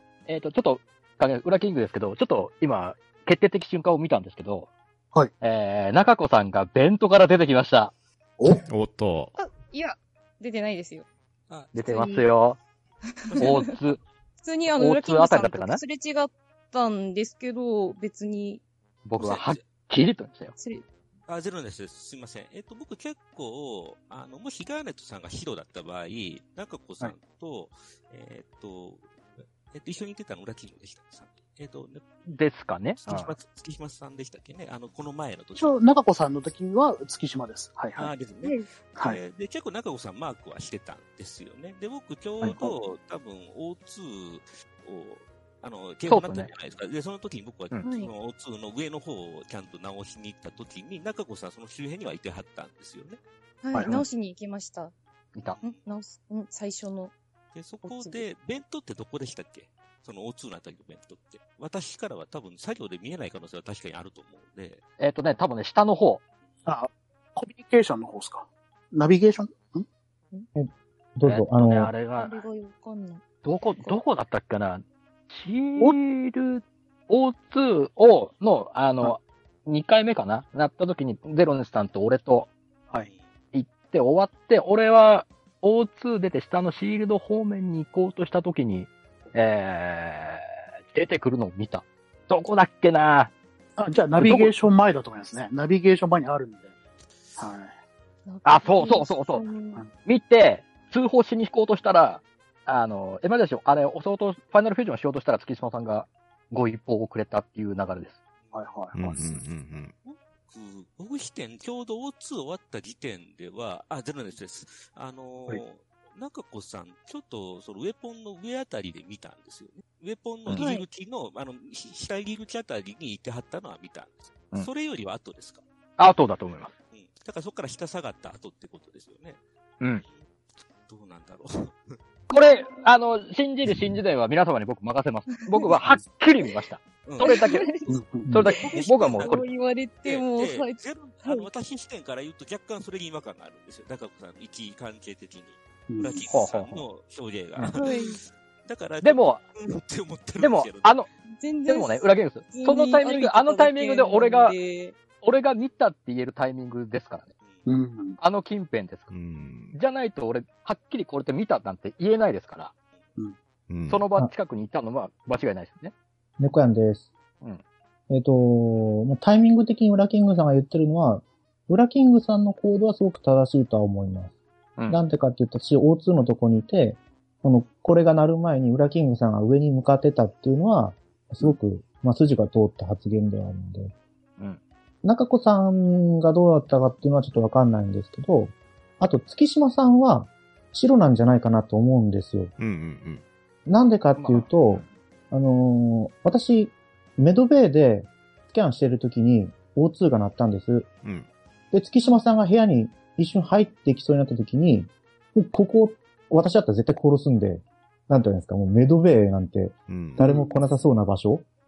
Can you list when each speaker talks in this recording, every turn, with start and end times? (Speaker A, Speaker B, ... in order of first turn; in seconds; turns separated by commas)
Speaker A: 0.3-4.7, Speaker A: 5.4-7.9, Speaker B: 8.4-8.6, Speaker C: 8.5-9.3, Speaker D: 9.3-11.1, Speaker E: 11.5-12.1, Speaker A: 11.7-12.6, Speaker D: 11.9-12.2, Speaker D: 13.1-13.8, Speaker E: 13.3-13.5, Speaker A: 13.4-14.0, Speaker D: 14.4-18.6, Speaker A: 14.7-15.8, Speaker A: 19.1-20.5, Speaker E: 19.2-19.6, Speaker D: 20.6-20.9, Speaker E: 21.3-29.1, Speaker E: 29.7-32.0, Speaker A: 32.3-33.4, Speaker E: 33.0-35.7, Speaker B: 35.6-38.1, Speaker E: 38.0-53.2, Speaker A: 42.4-42.7, Speaker A: 46.1-46.5, Speaker D: 47.8-48.1, Speaker D: 53.6-54.9, Speaker B: 53.7-54.0, Speaker D: 55.6-57.1, Speaker E: 57.5-64.8, Speaker D: 57.8-58.2, Speaker A: 65.0-66.2, Speaker B: 66.7-69.9, Speaker F: 70.5-71.9, Speaker A: 71.2-72.5, Speaker D: 72.2-73.2, Speaker A: 73.4-82.5, Speaker A: 83.5-93.3, Speaker B: 93.8-96.7, Speaker A: 94.2-94.5, Speaker B: 97.4-97.7, Speaker D: 98.3-99.8, Speaker A: 98.5-99.5, Speaker A: 100.0-108.2, Speaker B: 108.5-109.3, Speaker C: 108.9-109.9, Speaker E: 110.0-125.6, Speaker D: 120.6-120.8, Speaker A: 126.0-126.7, Speaker E: 126.9-129.4, Speaker E: 130.8-132.0, Speaker A: 132.3-137.7, Speaker D: 135.3-135.7, Speaker E: 137.1-137.5, Speaker D: 137.2-137.9, Speaker B: 137.9-138.3, Speaker A: 138.3-139.5, Speaker D: 138.4-141.5, Speaker E: 138.6-139.4, Speaker E: 140.1-151.0, Speaker B: 145.9-146.3, Speaker A: 146.3-146.9, Speaker D: 147.7-148.2, Speaker A: 149.0-149.4, Speaker A: 150.4-151.1, Speaker D: 151.3-155.0, Speaker A: 151.7-154.6, Speaker A: 155.1-157.3, Speaker B: 157.7-158.2, Speaker A: 158.2-159.1, Speaker C: 159.1-159.8, Speaker A: 159.7-162.7, Speaker C: 163.7-164.1, Speaker A: 163.9-165.9, Speaker F: 166.4-167.1, Speaker F: 168.1-174.3, Speaker F: 174.9-183.9, Speaker F: 185.0-192.5, Speaker C: 192.6-193.2, Speaker F: 193.7-200.9, Speaker A: 194.2-194.5, Speaker F: 201.7-211.5, Speaker C: 209.9-210.3, Speaker B: 210.2-210.6